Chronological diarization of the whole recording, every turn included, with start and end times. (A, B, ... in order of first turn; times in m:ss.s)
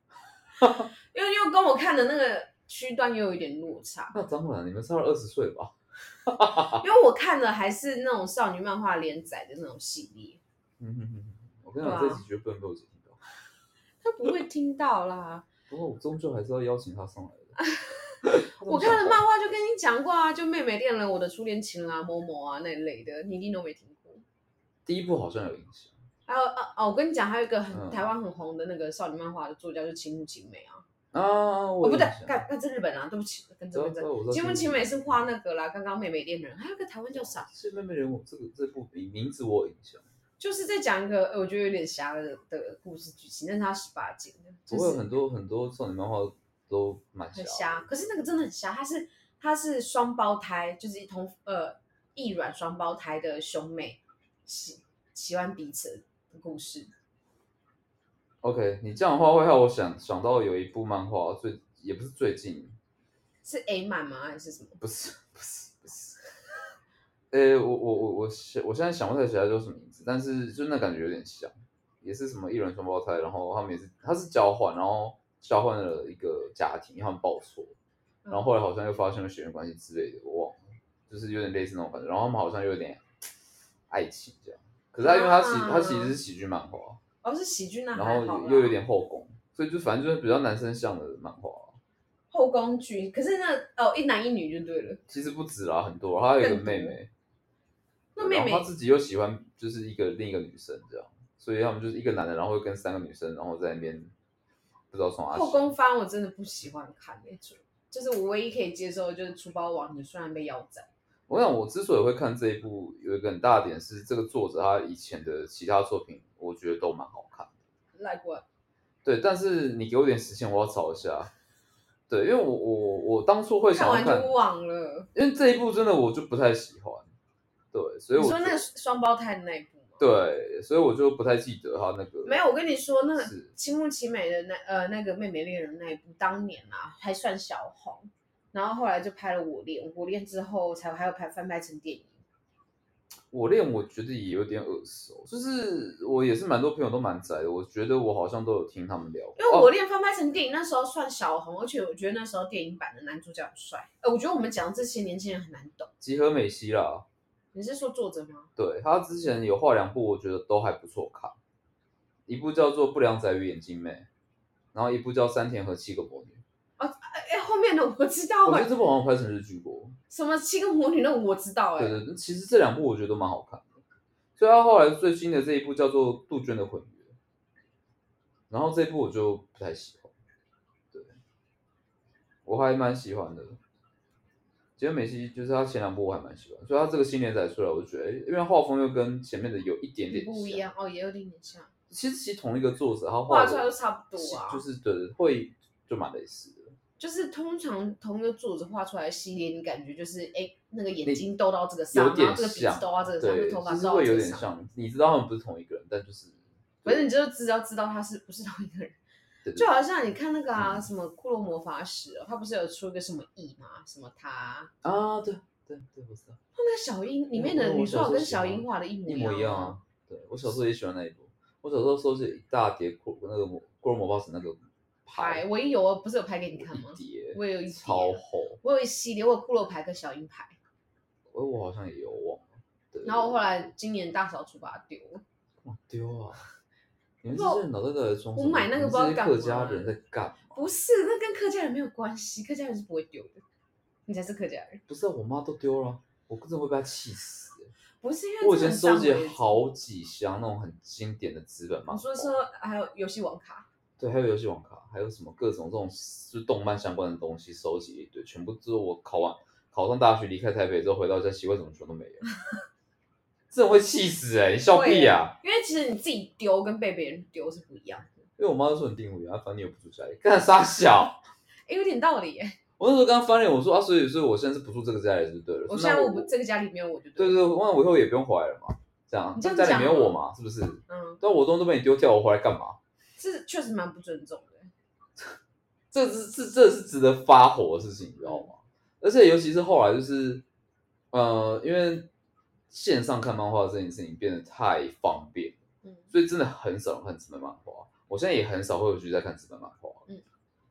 0:00.6-0:00.9 A
0:01.1-0:04.2 B
0:04.1-0:05.7 A
0:06.3-0:06.8 A
0:06.6-0:10.4 B
0:10.8-0:13.2 A
0:11.8-0:12.2 B
0:14.0-0:15.5 B
0:15.7-0:17.6 A
0:17.6-0:24.2 B
0:18.2-0:19.2 A
0:24.9-0:25.9 A
0:26.3-0:30.8 B
0:27.7-0:28.1 A
0:31.1-0:32.4 A
0:31.8-0:37.5 B
0:33.7-0:35.2 A
0:37.2-0:40.0 A
0:40.4-0:45.0 B
0:44.7-0:47.8 A
0:47.3-0:56.9 B
0:58.4-1:02.8 A
1:03.4-1:04.8 B
1:04.8-1:06.2 A
1:07.3-1:17.8 A
1:18.3-1:23.0 A
1:23.9-1:27.0 A
1:25.0-1:26.2 B
1:27.2-1:28.8 B
1:27.9-1:31.8 A
1:32.3-1:35.0 B
1:35.1-1:37.1 A
1:36.4-1:37.0 B
1:38.2-1:38.7 B
1:38.2-1:44.1 A
1:44.9-1:45.7 A
1:45.3-1:50.9 B
1:51.3-1:57.5 A
1:58.0-1:58.4 B
1:59.0-2:01.3 A
2:02.1-2:04.4 A
2:03.7-2:05.1 B
2:05.2-2:07.1 A
2:07.7-2:08.6 A
2:08.2-2:10.0 B
2:10.0-2:12.4 A
2:12.2-2:22.2 B
2:13.2-2:13.5 A
2:23.3-2:29.7 A
2:29.4-2:35.9 B
2:36.0-2:37.0 A
2:37.5-2:38.5 B
2:38.6-2:41.4 A
2:42.3-2:44.1 A
2:44.7-2:46.4 A
2:46.8-2:48.7 B
2:48.4-2:50.0 A
2:50.1-2:52.0 B
2:51.8-2:53.8 A
2:54.4-2:57.1 A
2:58.5-3:00.1 A
3:02.4-3:03.6 A
3:04.8-3:10.7 A
3:10.1-3:11.7 B
3:11.9-3:16.8 A
3:13.3-3:14.6 B
3:17.0-3:24.5 B
3:21.9-3:27.1 A
3:26.8-3:29.0 B
3:29.6-3:34.7 B
3:30.6-3:30.9 A
3:34.8-3:36.4 A
3:36.6-3:39.8 B
3:37.3-3:45.5 A
3:45.2-3:50.6 B
3:46.6-3:48.6 A
3:51.3-3:53.5 A
3:53.0-3:55.2 B
3:55.6-3:56.4 A
3:57.2-4:00.7 A
3:57.3-3:57.7 B
3:58.4-4:00.0 B
4:00.5-4:03.4 B
4:04.1-4:04.8 B
4:04.9-4:07.7 A
4:08.0-4:09.6 B
4:08.4-4:12.4 A
4:11.9-4:13.7 B
4:14.0-4:22.2 A
4:23.5-4:25.4 A
4:24.7-4:28.2 B
4:28.4-4:31.2 A
4:31.7-4:32.6 B
4:32.8-4:36.3 A
4:35.7-4:37.4 B
4:37.2-4:42.8 A
4:39.4-4:40.2 B
4:40.9-4:41.2 B
4:43.2-4:44.7 B
4:45.9-4:50.4 A
4:48.2-4:48.5 B
4:51.1-4:52.1 A
4:52.7-4:55.6 A
4:55.8-4:56.1 B
4:56.1-5:00.0 A